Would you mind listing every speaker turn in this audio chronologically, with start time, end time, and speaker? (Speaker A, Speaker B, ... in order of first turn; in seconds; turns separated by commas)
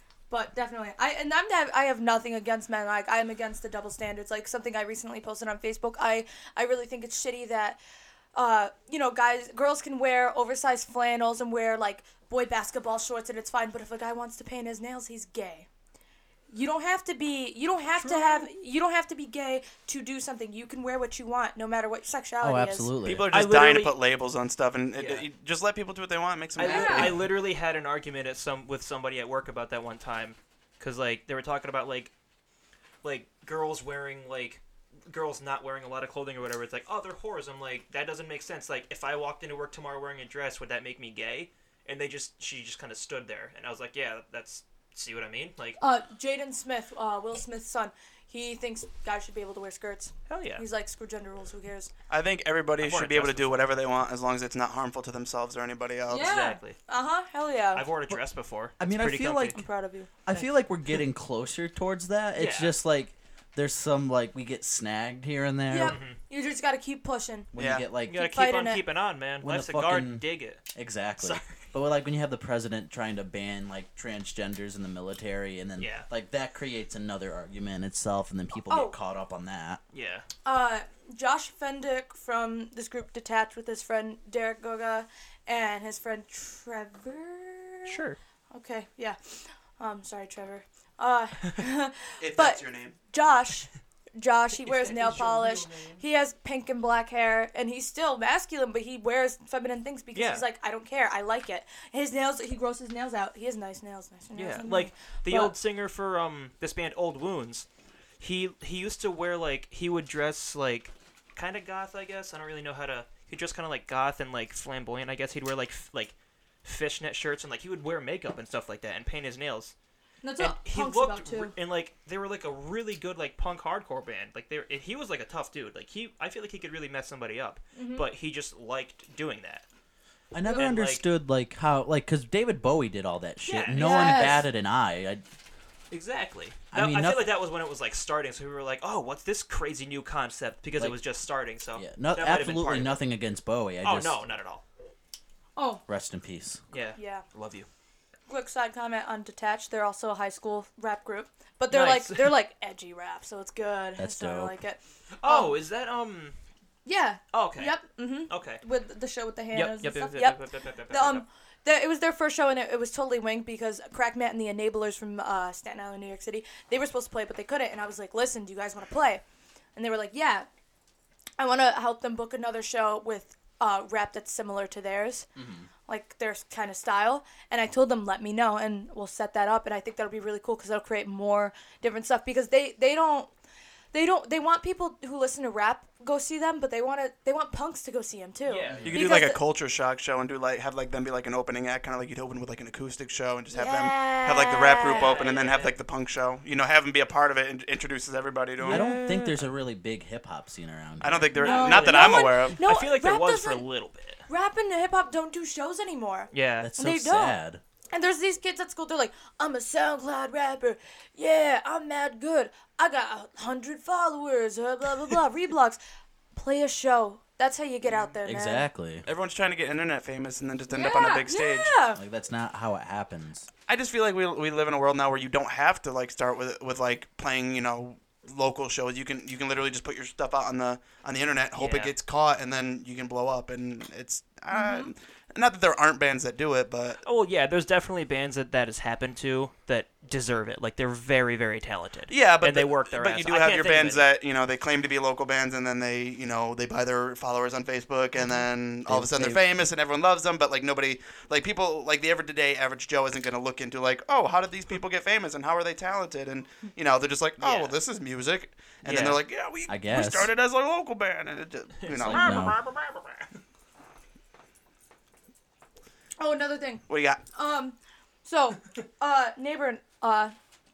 Speaker A: 0.3-7.8, Speaker A: 8.3-15.7, Speaker A: 16.5-22.9, Speaker B: 17.9-18.5, Speaker C: 22.4-23.3, Speaker D: 23.0-27.3, Speaker B: 23.3-23.9, Speaker B: 25.0-25.2, Speaker B: 26.6-32.1, Speaker A: 26.6-27.1, Speaker B: 33.0-45.8, Speaker A: 45.8-51.9, Speaker B: 50.3-50.6, Speaker D: 52.1-56.3, Speaker B: 52.8-53.7, Speaker A: 56.1-57.9, Speaker B: 56.1-56.8, Speaker B: 57.7-59.6, Speaker C: 58.8-59.6, Speaker A: 59.5-60.1, Speaker C: 60.2-66.0, Speaker B: 62.3-62.8, Speaker A: 65.7-67.5, Speaker B: 65.8-66.2, Speaker C: 67.5-68.2, Speaker D: 67.5-67.8, Speaker B: 68.1-70.6, Speaker A: 68.1-68.8, Speaker C: 69.4-79.8, Speaker B: 71.2-71.7, Speaker B: 75.8-76.1, Speaker A: 78.7-78.9, Speaker B: 79.9-80.2, Speaker A: 80.4-88.0, Speaker B: 87.9-88.2, Speaker A: 88.5-105.5, Speaker D: 92.2-93.0, Speaker B: 94.6-96.0, Speaker B: 100.1-100.5, Speaker B: 104.3-107.7, Speaker B: 108.2-119.7, Speaker A: 120.2-121.5, Speaker B: 120.4-129.6, Speaker A: 127.8-128.1, Speaker C: 130.3-135.2, Speaker A: 130.4-130.7, Speaker B: 130.5-131.0, Speaker B: 133.4-134.4, Speaker A: 133.7-134.4, Speaker B: 135.9-143.0, Speaker C: 136.7-137.3, Speaker C: 141.7-144.2, Speaker B: 143.8-144.6, Speaker A: 145.6-145.8, Speaker C: 145.9-146.6, Speaker B: 146.7-147.7, Speaker A: 146.9-147.2, Speaker A: 148.3-155.6, Speaker B: 151.7-152.4, Speaker C: 153.9-154.5, Speaker B: 155.2-156.3, Speaker A: 156.8-169.2, Speaker B: 157.3-158.6, Speaker B: 159.5-161.2, Speaker A: 169.8-170.5, Speaker A: 171.4-175.3, Speaker C: 175.3-175.7, Speaker A: 175.9-183.3, Speaker A: 183.9-189.4, Speaker B: 188.4-189.0, Speaker C: 188.7-188.9, Speaker D: 188.8-198.9, Speaker A: 193.5-195.2, Speaker B: 194.8-195.8, Speaker B: 198.6-199.5, Speaker C: 198.6-201.3, Speaker D: 201.0-202.6, Speaker B: 201.3-204.2, Speaker A: 201.3-203.6, Speaker A: 204.3-207.3, Speaker B: 206.3-206.7, Speaker C: 206.6-207.6, Speaker A: 207.9-215.8, Speaker A: 216.3-218.7, Speaker C: 218.2-219.0, Speaker D: 219.0-221.7, Speaker A: 220.7-222.0, Speaker C: 221.9-223.5, Speaker D: 223.7-237.0, Speaker B: 231.6-231.9, Speaker A: 234.5-234.9, Speaker B: 237.0-244.1, Speaker D: 242.1-262.4, Speaker C: 248.8-249.4, Speaker B: 257.4-257.8, Speaker B: 258.8-259.2, Speaker C: 259.7-260.3, Speaker B: 261.8-263.2, Speaker C: 261.9-262.6, Speaker A: 266.2-270.3, Speaker D: 266.9-267.2